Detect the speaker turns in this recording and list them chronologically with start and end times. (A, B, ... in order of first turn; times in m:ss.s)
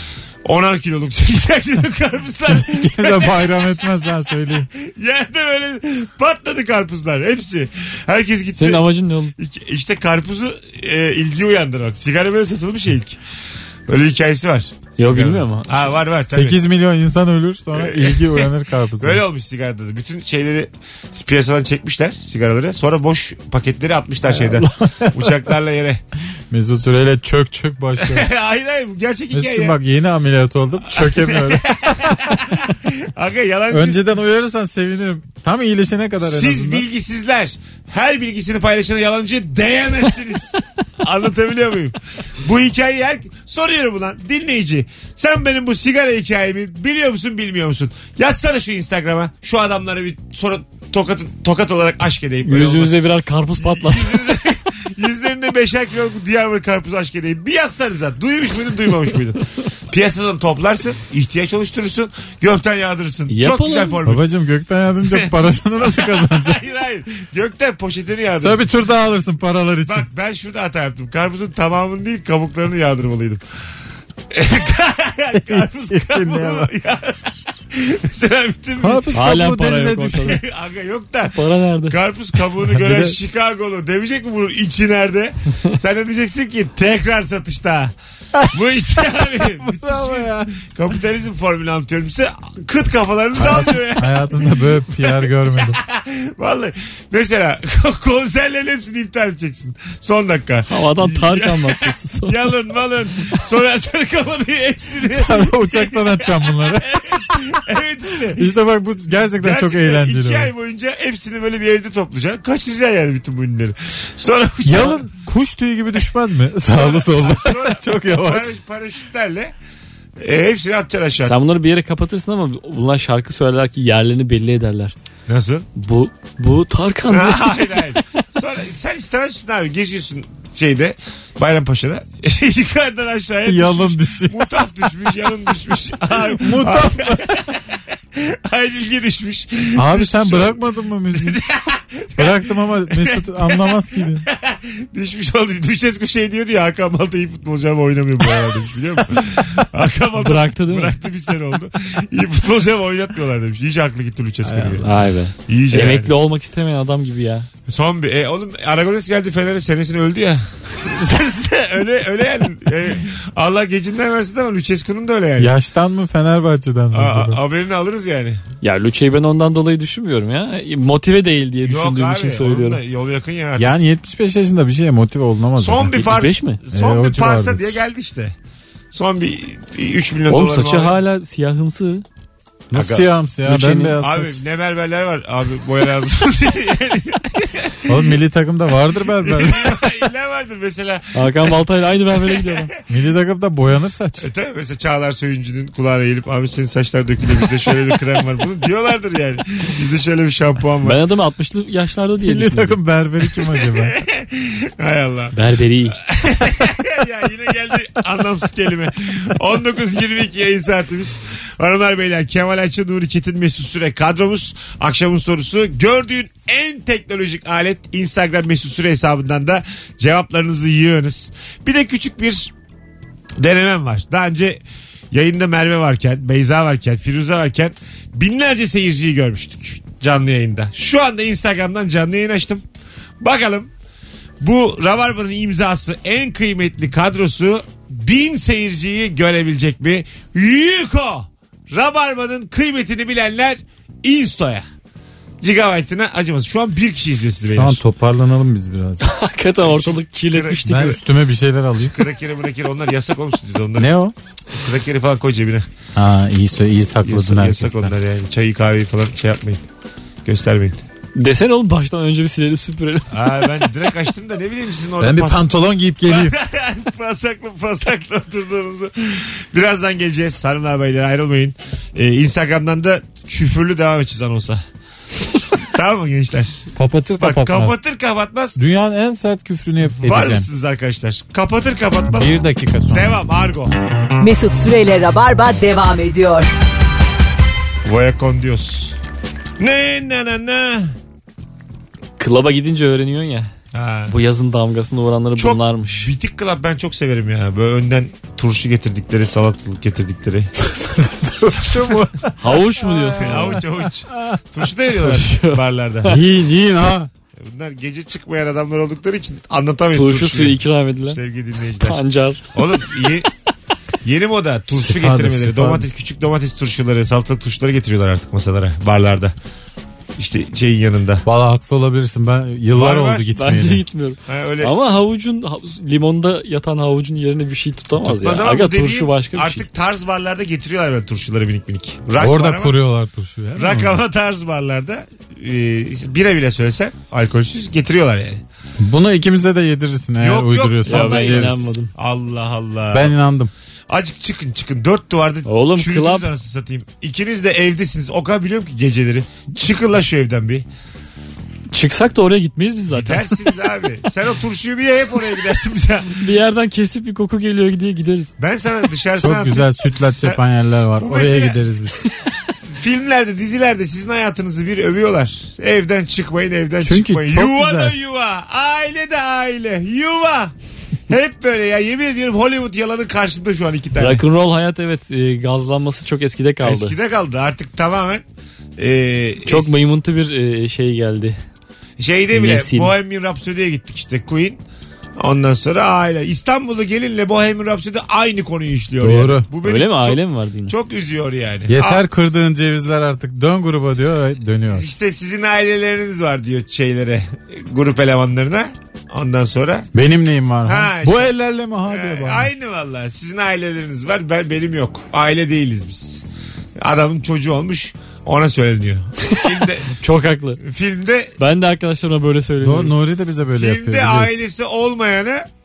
0:00.4-0:03.6 A
0:02.4-0:04.7 B
0:04.7-0:08.8 A
0:08.5-0:09.3 C
0:09.4-0:13.2 A
0:13.9-0:16.6 A
0:15.0-0:15.9 C
0:16.2-0:19.2 B
0:17.7-0:18.5 A
0:19.0-0:26.0 A
0:24.3-0:25.5 B
0:26.5-0:28.3 B
0:28.0-0:29.8 A
0:29.3-0:32.4 B
0:30.9-0:34.0 A
0:33.7-0:36.8 B
0:36.2-0:52.9 A
0:52.4-0:54.4 C
0:53.6-1:04.2 A
1:03.3-1:04.0 C
1:04.0-1:06.6 B
1:05.1-1:08.7 A
1:08.4-1:10.1 B
1:09.8-1:13.4 A
1:14.3-1:19.1 A
1:15.3-1:16.7 B
1:18.8-1:20.4 B
1:19.1-1:20.4 C
1:20.2-1:21.4 A
1:21.3-1:22.0 C
1:21.9-1:27.9 A
1:22.6-1:23.2 B
1:28.5-1:48.5 A
1:29.2-1:30.5 B
1:33.3-1:35.8 B
1:40.7-1:42.5 C
1:45.0-1:47.6 B
1:48.4-1:50.5 B
1:49.4-1:55.0 A
1:54.6-1:58.6 B
1:56.7-1:59.5 A
2:00.2-2:01.3 A
2:01.2-2:04.9 C
2:05.3-2:05.7 A
2:05.8-2:08.0 C
2:07.1-2:20.6 A
2:13.4-2:14.6 B
2:16.2-2:17.4 B
2:19.7-2:21.4 B
2:21.1-2:34.9 A
2:22.2-2:24.2 B
2:30.2-2:31.0 C
2:34.4-2:34.9 B
2:34.8-2:37.5 C
2:35.5-2:36.1 A
2:37.7-2:45.5 A
2:45.4-2:47.4 B
2:46.9-2:48.4 A
2:48.6-2:52.8 C
2:51.6-2:53.7 A
2:53.6-2:56.1 B
2:55.6-2:58.3 A
2:55.9-2:56.6 C
2:56.7-2:57.8 B
2:58.9-3:01.0 A
3:00.3-3:02.0 C
3:02.7-3:04.4 B
3:02.7-3:03.1 A
3:03.4-3:04.0 C
3:04.0-3:08.0 A
3:07.9-3:09.9 B
3:09.2-3:11.6 A
3:11.1-3:12.7 C
3:12.1-3:12.7 A
3:12.9-3:14.3 B
3:14.2-3:21.0 A
3:20.8-3:22.8 C
3:22.2-3:23.9 B
3:23.5-3:25.3 A
3:25.3-3:26.0 C
3:26.0-3:42.5 A
3:43.4-3:44.6 A
3:45.1-3:52.6 A
3:53.2-3:53.7 A
3:54.4-4:04.6 A
4:05.4-4:07.8 A
4:07.5-4:09.1 B
4:09.0-4:11.0 C
4:09.6-4:10.9 A
4:10.6-4:12.0 B
4:11.8-4:13.9 A
4:13.8-4:14.1 B
4:14.5-4:15.6 A
4:16.0-4:17.9 B
4:17.0-4:19.6 A
4:20.2-4:20.8 A
4:21.2-4:23.7 C
4:23.1-4:25.5 A
4:25.0-4:26.3 B
4:26.0-4:34.6 A
4:35.6-4:36.6 A
4:36.7-4:37.8 B
4:37.2-4:38.6 A
4:38.6-4:40.5 B
4:40.0-4:42.3 A
4:42.1-4:43.2 B
4:42.9-4:43.7 A
4:44.2-4:46.5 D
4:47.8-4:49.0 A
4:49.6-4:50.9 A
4:52.2-4:53.5 C
4:53.7-4:54.1 A
4:54.1-4:56.1 C
4:55.4-5:00.5 A
5:00.8-5:04.4 B
5:01.5-5:02.0 A
5:02.4-5:03.6 C
5:03.2-5:06.2 A
5:05.0-5:06.2 C
5:06.0-5:07.1 B
5:07.4-5:12.0 A
5:09.9-5:11.2 C
5:11.8-5:12.4 C
5:12.5-5:13.3 A
5:14.0-5:19.3 A
5:14.7-5:15.9 B
5:20.2-5:21.2 A
5:21.2-5:23.8 B
5:22.7-5:23.3 A
5:23.3-5:29.6 C
5:24.3-5:24.7 A
5:28.0-5:32.8 A
5:32.2-5:34.0 B
5:33.6-5:38.4 A
5:38.8-5:41.7 B
5:40.2-5:43.1 A
5:40.8-5:41.9 C
5:42.9-5:43.5 B
5:43.9-5:50.6 A
5:45.4-5:46.3 C
5:51.7-5:53.5 C
5:52.9-5:56.2 A
5:56.2-5:58.3 C
5:58.4-6:00.4 A
5:59.2-6:02.0 B
6:01.0-6:01.6 A
6:02.7-6:10.5 A
6:06.8-6:08.0 B
6:11.1-6:14.2 A
6:14.0-6:16.9 C
6:16.6-6:18.2 A
6:18.8-6:19.7 A
6:19.4-6:21.4 C
6:22.0-6:24.6 A
6:22.3-6:22.9 C
6:25.2-6:32.0 A
6:29.0-6:29.5 B
6:29.6-6:30.7 C
6:31.7-6:34.9 B
6:34.7-6:39.9 A
6:39.9-6:42.5 B
6:40.6-6:41.3 A
6:41.9-6:46.2 A
6:46.8-6:49.9 A
6:49.9-6:50.6 C
6:50.6-6:51.3 A
6:51.4-6:52.9 C
6:52.6-6:54.5 B
6:53.5-6:55.4 A